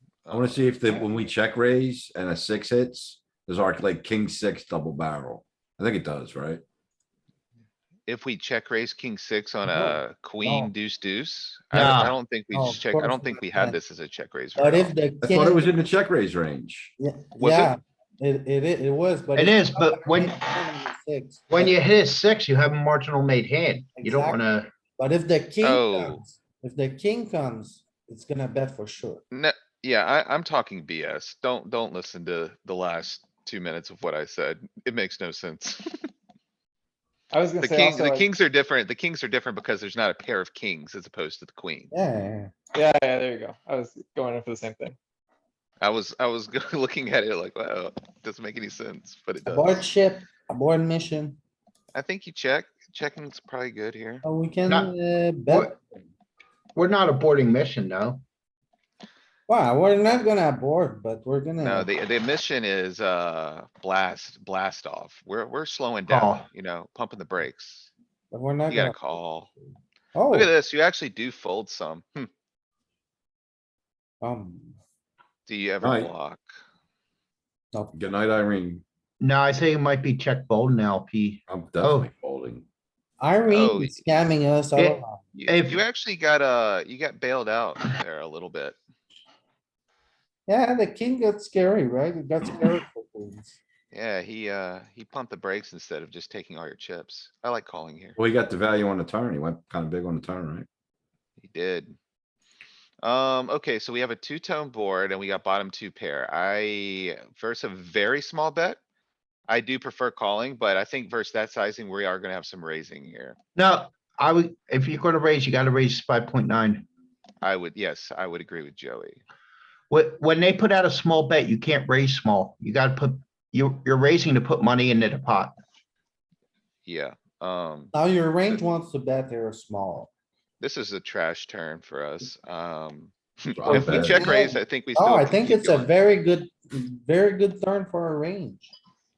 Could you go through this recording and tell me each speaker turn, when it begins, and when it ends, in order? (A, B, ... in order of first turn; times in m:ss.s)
0:00.2-0:00.9 A
0:00.3-0:06.6 B
0:08.1-0:14.9 A
0:09.6-0:10.7 C
0:11.7-0:12.2 D
0:12.5-0:13.8 C
0:14.6-0:15.7 C
0:15.2-0:16.9 B
0:17.0-0:21.7 C
0:17.4-0:17.7 A
0:19.4-0:20.6 D
0:21.5-0:24.7 D
0:24.0-0:29.2 C
0:25.6-0:26.2 A
0:29.3-0:36.0 A
0:37.3-0:38.3 E
0:37.6-0:41.9 A
0:41.9-0:42.5 C
0:42.7-0:45.0 E
0:45.8-0:49.8 A
0:49.4-0:51.4 C
0:51.9-0:54.2 A
0:54.2-0:55.8 C
0:55.5-0:55.7 D
0:56.8-0:58.2 D
0:59.5-1:01.9 C
1:01.6-1:07.9 A
1:06.0-1:06.4 D
1:08.3-1:09.0 C
1:08.7-1:09.5 A
1:10.1-1:10.5 C
1:10.3-1:12.3 A
1:14.2-1:14.8 C
1:15.5-1:16.4 A
1:15.8-1:16.1 B
1:17.9-1:18.8 B
1:19.2-1:22.1 D
1:21.5-1:22.6 B
1:23.2-1:25.2 C
1:23.5-1:24.1 A
1:24.7-1:25.8 D
1:25.3-1:28.8 A
1:30.5-1:33.6 C
1:33.9-1:38.2 A
1:38.2-1:40.7 B
1:41.4-1:42.0 A
1:43.0-1:48.8 A
1:49.5-1:53.4 A
1:53.6-1:56.8 D
1:57.4-1:59.2 A
1:59.9-2:05.5 D
2:06.8-2:07.9 A
2:07.9-2:10.1 C
2:10.6-2:15.9 A
2:13.5-2:14.3 B
2:13.6-2:18.7 C